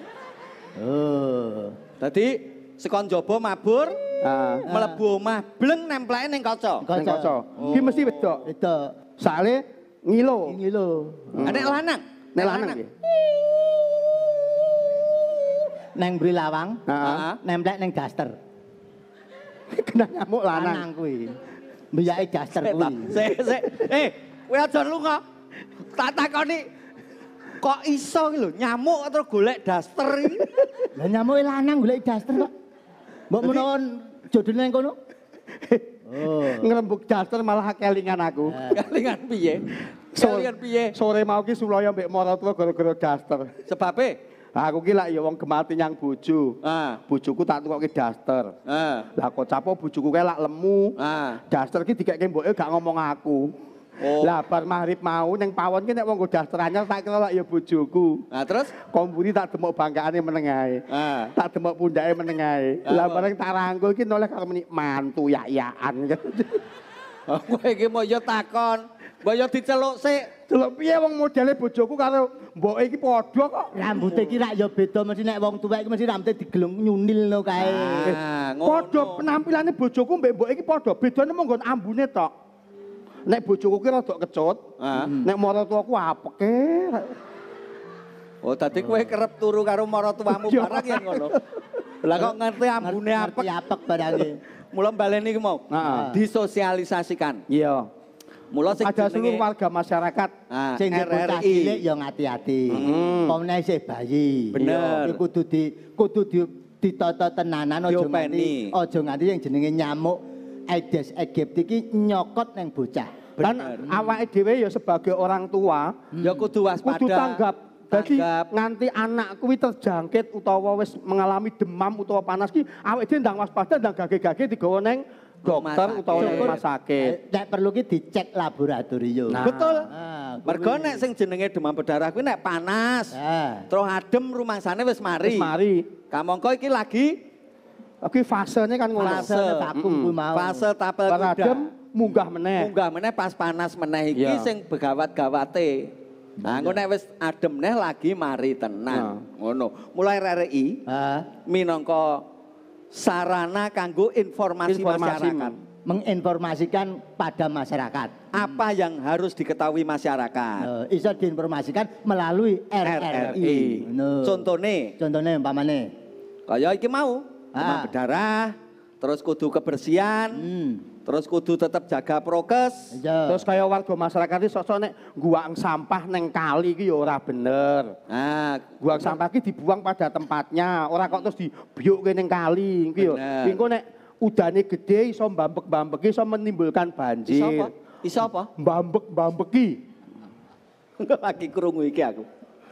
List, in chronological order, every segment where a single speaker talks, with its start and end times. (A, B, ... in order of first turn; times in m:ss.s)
0:00.8-0:01.8 A
0:02.0-0:04.0 B
0:04.2-0:04.6 C
0:04.7-0:05.0 A
0:04.7-0:06.9 B
0:06.8-0:07.8 A
0:07.0-0:08.5 C
0:07.6-0:08.4 B
0:08.4-0:09.0 A
0:09.2-0:10.6 C
0:10.5-0:11.7 A
0:11.3-0:11.8 C
0:11.4-0:12.8 B
0:12.4-0:12.9 C
0:16.0-0:18.4 A
0:16.9-0:17.2 C
0:17.0-0:17.4 B
0:19.7-0:20.9 C
0:20.5-0:21.4 A
0:21.9-0:23.2 A
0:22.5-0:25.2 B
0:25.9-0:26.7 B
0:27.6-0:30.5 B
0:31.0-0:32.5 A
0:33.3-0:35.0 A
0:35.6-0:38.6 C
0:36.1-0:36.7 A
0:38.5-0:38.9 A
0:38.7-0:40.9 B
0:40.2-0:43.5 C
0:43.7-0:44.2 B
0:44.6-0:46.6 C
0:46.6-0:47.0 B
0:47.1-0:48.5 C
0:48.7-0:49.1 B
0:49.2-0:50.9 C
0:51.0-0:51.4 B
0:51.5-0:53.5 C
0:54.0-0:54.4 B
0:54.2-0:58.2 C
0:58.3-0:58.7 B
0:58.9-1:00.8 C
1:00.9-1:01.3 B
1:01.4-1:06.6 C
1:02.9-1:03.3 B
1:07.3-1:10.3 B
1:10.5-1:13.7 C
1:13.7-1:18.2 A
1:14.0-1:14.4 B
1:17.6-1:19.2 B
1:18.1-1:22.3 C
1:23.3-1:24.6 C
1:24.8-1:25.1 B
1:25.0-1:25.3 A
1:25.2-1:27.1 C
1:28.4-1:31.4 B
1:30.3-1:31.4 C
1:32.0-1:33.5 B
1:32.8-1:34.4 A
1:34.7-1:37.4 B
1:35.7-1:36.1 C
1:35.8-1:36.2 A
1:37.5-1:37.9 C
1:38.5-1:39.4 B
1:38.8-1:40.3 C
1:40.5-1:41.8 B
1:40.8-1:54.0 A
1:42.7-1:43.1 B
1:42.8-1:43.4 C
1:44.6-1:45.2 B
1:44.6-1:45.0 C
1:47.9-1:48.7 B
1:53.4-1:55.9 C
1:53.4-1:53.8 B
1:56.1-1:56.5 A
1:56.2-1:57.4 B
1:56.8-2:07.2 C
1:57.9-1:58.5 B
2:05.5-2:06.6 B
2:06.2-2:11.1 A
2:09.3-2:09.9 C
2:09.4-2:09.9 B
2:10.5-2:13.1 B
2:13.1-2:13.7 A
2:13.7-2:15.5 B
2:15.2-2:15.8 C
2:16.1-2:17.2 B
2:18.0-2:20.1 C
2:19.0-2:20.7 A
2:19.0-2:19.7 B
2:20.3-2:21.6 B
2:21.1-2:22.7 C
2:22.6-2:25.9 B
2:24.2-2:24.5 C
2:26.4-2:26.8 A
2:26.4-2:30.8 B
2:28.9-2:29.2 C
2:30.9-2:31.3 A
2:31.5-2:32.2 B
2:32.9-2:35.5 B
2:34.7-2:35.5 C
2:35.9-2:38.5 A
2:38.3-2:40.7 B
2:40.6-2:44.5 A
2:42.8-2:44.9 B
2:43.3-2:43.8 C
2:45.0-2:45.9 A
2:46.5-2:50.4 B
2:47.6-2:47.9 A
2:50.3-2:50.9 A
2:51.1-2:52.9 B
2:52.9-2:53.5 A
2:53.3-2:57.9 C
2:58.1-2:59.1 B
2:58.8-3:07.7 C
3:03.0-3:03.6 B
3:07.3-3:08.5 B
3:08.6-3:09.8 C
3:11.0-3:12.3 B